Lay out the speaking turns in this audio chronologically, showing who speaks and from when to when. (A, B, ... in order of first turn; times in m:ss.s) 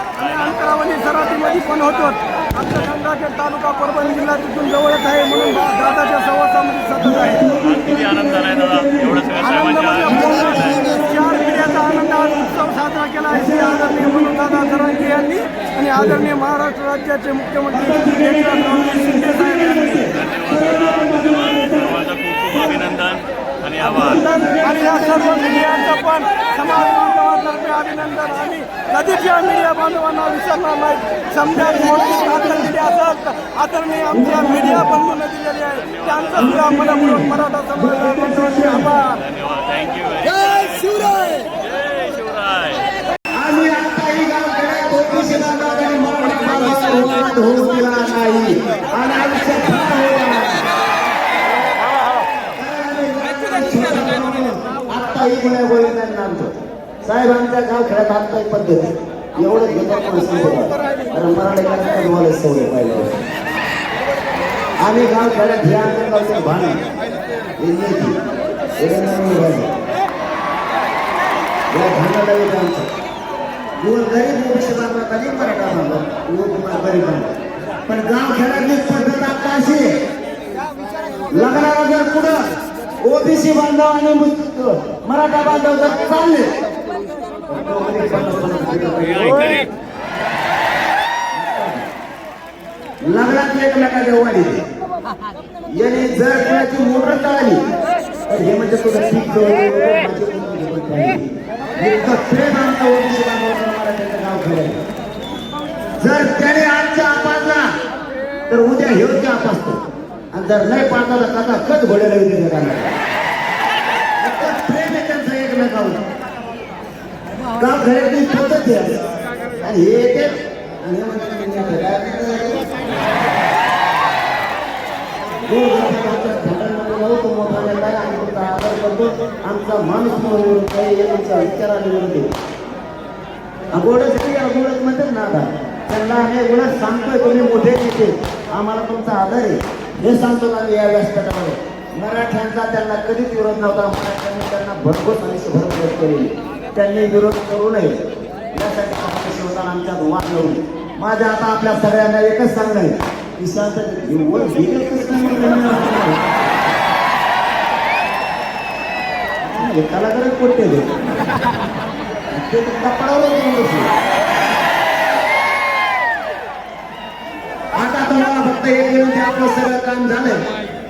0:00.2-0:00.6 A
0:00.2-0:07.5 B
0:07.6-0:10.8 A
0:09.4-0:20.1 B
0:20.1-0:24.2 A
0:23.8-0:39.2 B
0:35.8-0:36.7 A
0:39.1-0:42.8 A
0:43.3-0:50.6 C
0:52.6-0:56.5 C
0:57.0-1:03.2 C
1:04.8-1:06.8 C
1:07.6-1:08.2 C
1:08.8-1:09.7 C
1:11.7-1:12.9 C
1:13.8-1:17.3 C
1:17.9-1:19.9 C
1:21.3-1:22.4 C
1:23.0-1:26.5 C
1:27.5-1:29.7 C
1:29.0-1:29.7 A
1:31.3-1:31.9 C
1:33.0-1:34.6 C
1:35.7-1:37.6 C
1:38.3-1:44.8 C
1:46.0-1:47.7 C
1:48.5-1:49.8 C
1:50.3-1:53.0 C
1:54.2-1:56.0 C
1:57.5-1:59.0 C
1:59.6-2:02.7 C
2:05.5-2:12.3 C
2:13.7-2:27.9 C
2:28.5-2:36.2 C
2:39.4-2:40.9 C
2:42.3-2:43.9 C
2:47.7-2:50.5 C